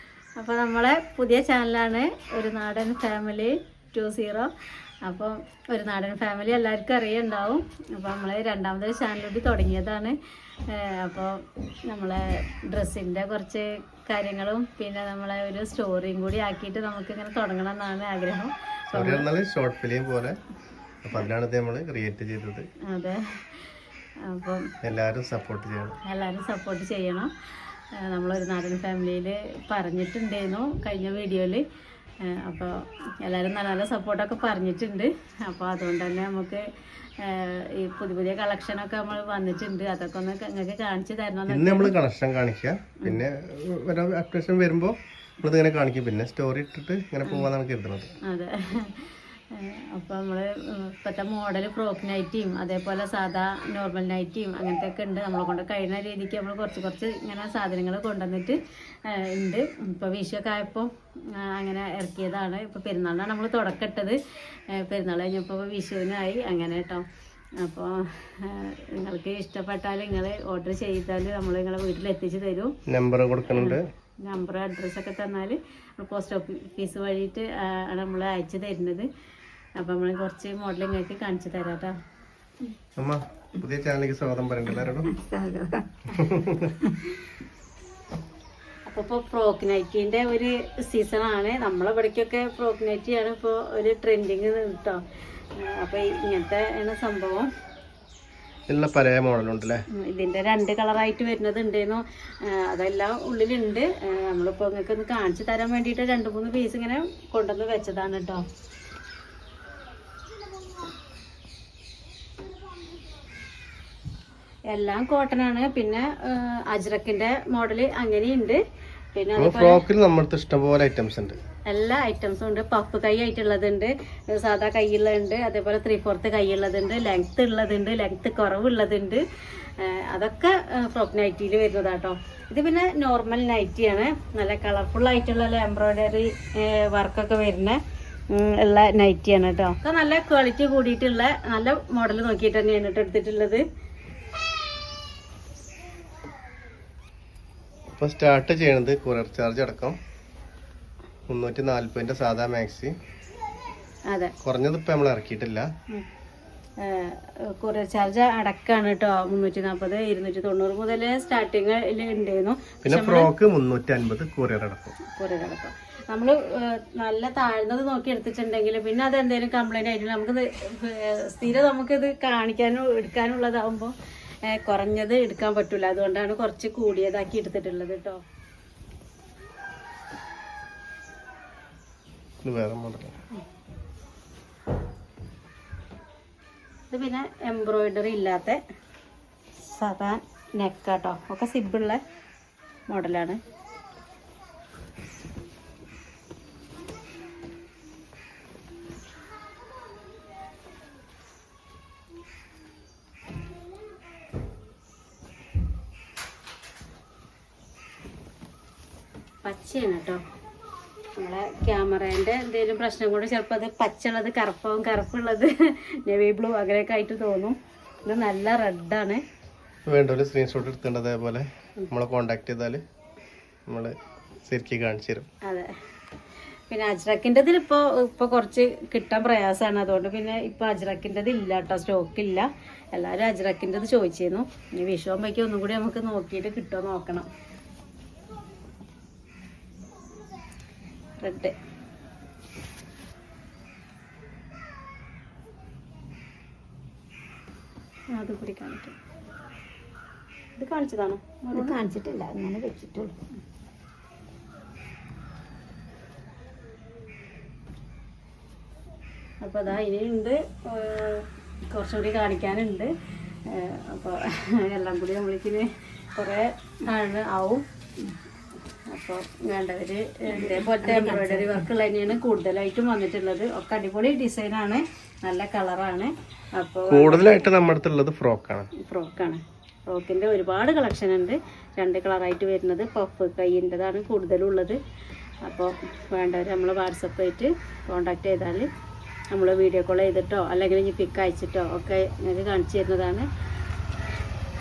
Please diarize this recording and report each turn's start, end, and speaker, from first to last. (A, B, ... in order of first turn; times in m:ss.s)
0:00.4-0:04.5 A
0:05.0-0:10.2 A
0:10.7-0:19.3 A
0:18.9-0:20.4 B
0:21.0-0:22.7 B
0:22.9-0:23.2 A
0:24.3-0:24.6 A
0:24.8-0:26.0 B
0:26.0-0:27.3 A
0:28.0-0:31.6 A
0:32.2-0:36.6 A
0:37.2-0:42.0 A
0:41.5-0:48.1 B
0:48.3-1:04.2 A
1:04.7-1:07.0 A
1:07.6-1:12.7 A
1:12.9-1:13.9 B
1:13.5-1:19.1 A
1:19.8-1:22.0 A
1:23.0-1:25.1 B
1:24.8-1:25.9 C
1:26.2-1:26.7 B
1:28.9-1:35.0 A
1:35.6-1:37.5 A
1:38.7-1:39.8 B
1:40.0-1:48.4 A
1:54.7-1:58.6 A
1:59.1-1:59.8 A
1:59.4-2:01.4 B
2:01.7-2:17.8 A
2:18.3-2:23.6 A
2:28.0-2:30.0 B
2:31.3-2:32.9 B
2:34.4-2:35.7 B
2:36.8-2:43.3 A
2:42.8-2:45.0 B
2:45.0-2:53.9 A
2:54.5-2:58.2 A
3:02.4-3:03.2 B
3:06.9-3:08.6 A
3:09.6-3:12.0 A
3:12.9-3:13.4 A
3:29.4-3:30.2 A
3:31.2-3:39.2 A
3:39.9-3:42.8 B
3:43.7-3:43.9 B
3:44.4-3:45.3 B
3:45.4-3:45.7 A
3:46.7-3:57.3 A
4:01.2-4:01.5 A
4:08.1-4:08.9 A
4:10.6-4:11.8 A
4:11.5-4:13.1 C
4:19.4-4:22.9 A
4:23.5-4:27.6 A
4:28.9-4:37.5 A
4:30.3-4:31.6 C
4:36.9-4:38.7 B
4:38.8-4:44.8 A
4:45.4-4:48.7 A
4:49.3-4:53.2 A